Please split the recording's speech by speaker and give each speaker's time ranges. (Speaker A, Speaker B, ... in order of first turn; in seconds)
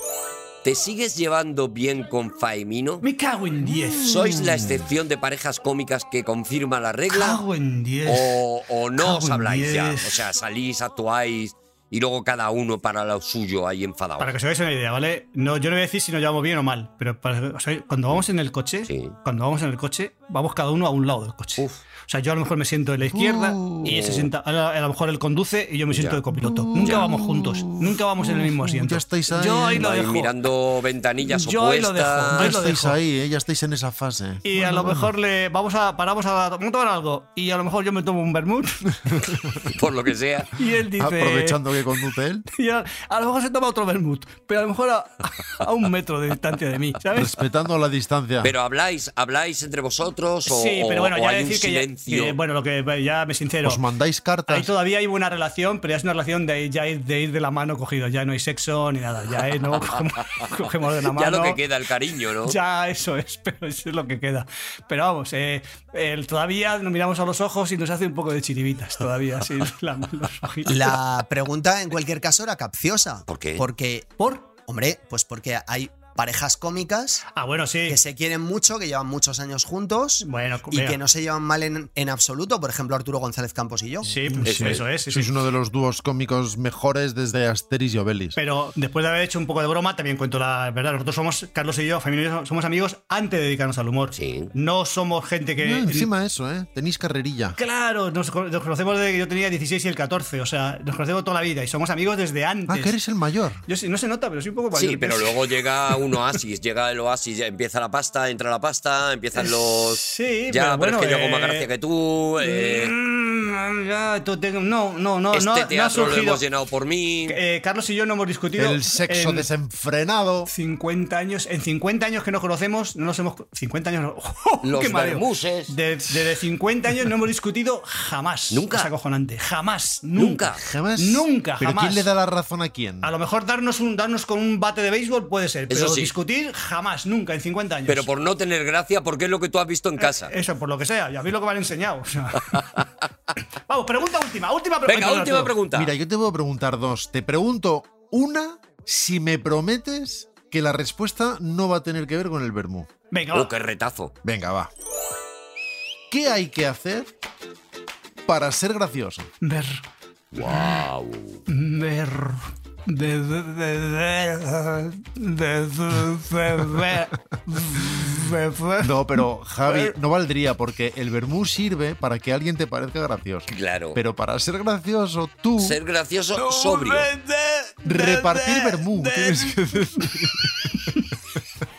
Speaker A: 0.6-3.0, 4.0-7.4, 8.0-14.3, 18.9-19.1, 23.8-24.3, 25.9-26.2, 29.7-32.5, 39.6-40.5, 48.4-52.4, 61.1-62.6, 73.3-73.7, 84.4-84.8, 94.1-94.5, 104.7-112.9, 115.3-117.4, 124.6-125.7, 128.5-128.9, 130.2-130.6, 135.7-136.1, 137.9-140.3, 144.9-145.9, 153.3-154.1, 160.3-161.4, 173.5-174.0, 175.6-177.1
Speaker B: 3.0-4.2, 7.1-8.4, 9.0-10.3, 14.2-30.3, 31.2-33.0, 34.4-39.2, 40.6-41.6, 42.5-47.4, 50.5-53.8, 54.5-61.6, 62.4-70.9, 74.2-74.5, 77.3-78.0, 80.2-81.0, 84.0-85.3, 88.3-96.1, 97.6-102.9, 103.7-105.3, 109.3-111.7, 112.4-116.4, 117.3-119.5, 120.5-130.4, 131.0-132.1, 133.0-138.1, 140.0-142.8, 143.7-145.5, 153.1-153.5, 159.4-159.8, 161.5-169.9, 176.4-181.1
Speaker C: 3.8-4.8, 23.1-24.0, 26.3-29.8, 32.3-35.1, 41.0-42.5, 47.1-48.5, 53.6-54.7, 84.2-88.4, 95.6-97.6, 102.7-103.6, 118.5-120.5, 130.5-133.1, 145.7-152.9, 154.2-154.7, 156.1-157.1, 158.2-159.3, 167.7-168.2, 168.8-175.8, 177.8-181.0
Speaker D: 70.6-74.1, 74.6-77.2, 77.9-84.1